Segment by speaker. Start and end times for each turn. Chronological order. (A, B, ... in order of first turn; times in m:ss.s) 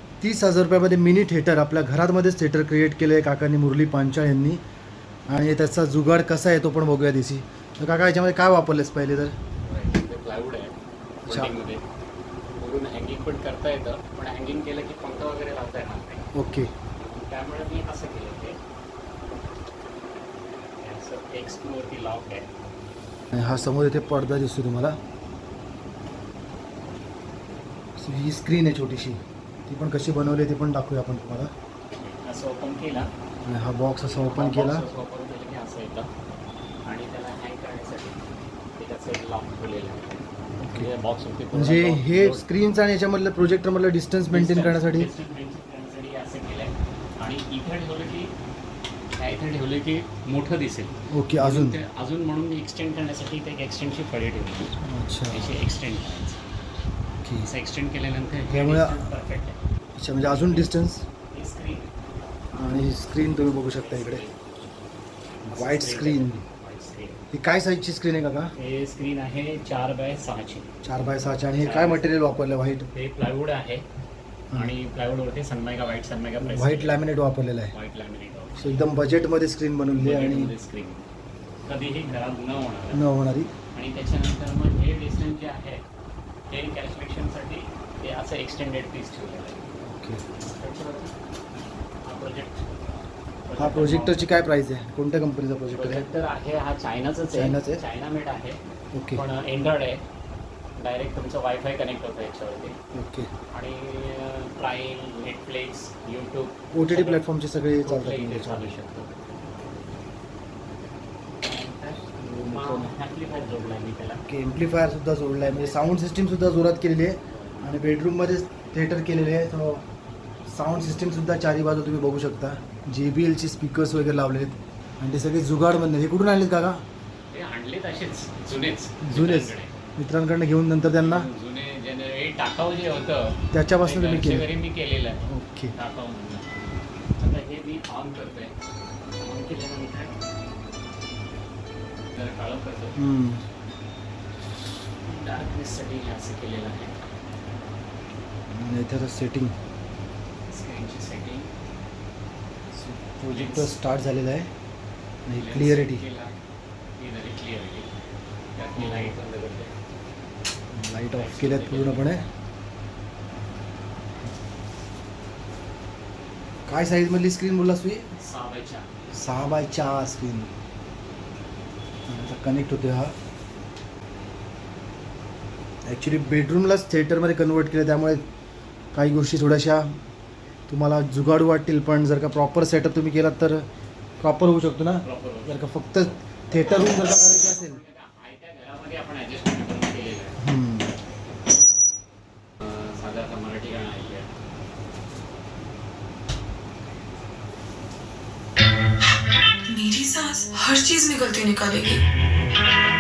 0:00.2-0:04.6 A
0:05.3-0:09.4 A
0:09.6-0:11.8 B
0:11.3-0:11.5 A
0:12.5-0:16.3 B
0:16.4-0:16.7 A
0:17.0-0:18.6 B
0:20.8-0:22.5 B
0:23.3-0:25.0 A
0:28.0-0:31.5 A
0:31.9-0:33.1 B
0:33.5-0:34.8 A
0:34.0-0:36.1 B
0:36.8-0:42.5 B
0:40.6-0:40.9 A
0:41.5-0:45.1 A
0:44.3-0:48.3 B
0:49.2-0:54.8 B
0:51.1-0:51.8 A
0:54.8-0:55.5 A
0:55.3-0:56.4 B
0:57.5-0:59.6 B
0:58.5-0:59.1 A
1:00.0-1:01.0 A
1:00.2-1:00.8 B
1:01.3-1:01.9 B
1:02.5-1:04.2 A
1:03.3-1:04.6 B
1:05.4-1:07.2 B
1:05.6-1:06.4 A
1:07.3-1:08.5 A
1:08.6-1:10.7 B
1:10.8-1:12.9 A
1:11.6-1:12.1 B
1:12.9-1:13.9 B
1:14.5-1:17.1 B
1:16.4-1:17.7 A
1:17.7-1:18.8 B
1:18.6-1:20.5 A
1:20.0-1:21.0 B
1:21.6-1:23.0 B
1:22.9-1:23.5 A
1:23.7-1:25.8 B
1:26.5-1:29.7 B
1:29.8-1:30.2 A
1:30.4-1:31.1 B
1:32.0-1:32.6 B
1:33.5-1:34.3 B
1:33.6-1:36.1 A
1:35.7-1:38.6 B
1:37.3-1:37.8 A
1:39.0-1:39.2 A
1:39.1-1:40.0 B
1:40.8-1:42.8 B
1:42.9-1:43.3 A
1:43.5-1:49.1 B
1:46.7-1:48.7 A
1:51.4-1:54.2 B
1:52.2-1:52.9 A
1:54.3-1:59.8 A
1:55.4-1:55.8 B
1:57.3-1:57.7 B
2:00.5-2:06.8 A
2:07.3-2:09.8 B
2:09.0-2:11.3 A
2:11.0-2:18.6 B
2:13.5-2:14.5 A
2:15.3-2:15.7 A
2:19.2-2:20.2 B
2:22.1-2:23.0 B
2:23.0-2:23.4 A
2:25.0-2:27.0 B
2:28.5-2:29.6 A
2:30.5-2:31.5 B
2:32.7-2:34.5 A
2:33.3-2:33.8 B
2:35.3-2:36.0 A
2:35.4-2:36.4 B
2:37.0-2:37.9 B
2:38.6-2:39.8 B
2:38.8-2:39.2 A
2:40.7-2:42.2 A
2:41.2-2:42.1 B
2:46.7-2:48.1 A
2:48.2-2:48.9 B
2:49.1-2:50.5 A
2:52.1-2:53.1 A
2:55.9-2:58.2 A
2:58.9-3:00.0 A
3:00.7-3:03.7 A
3:04.2-3:07.8 A
3:05.0-3:05.9 B
3:06.6-3:10.4 B
3:10.4-3:10.9 A
3:12.6-3:14.3 B
3:19.7-3:22.0 C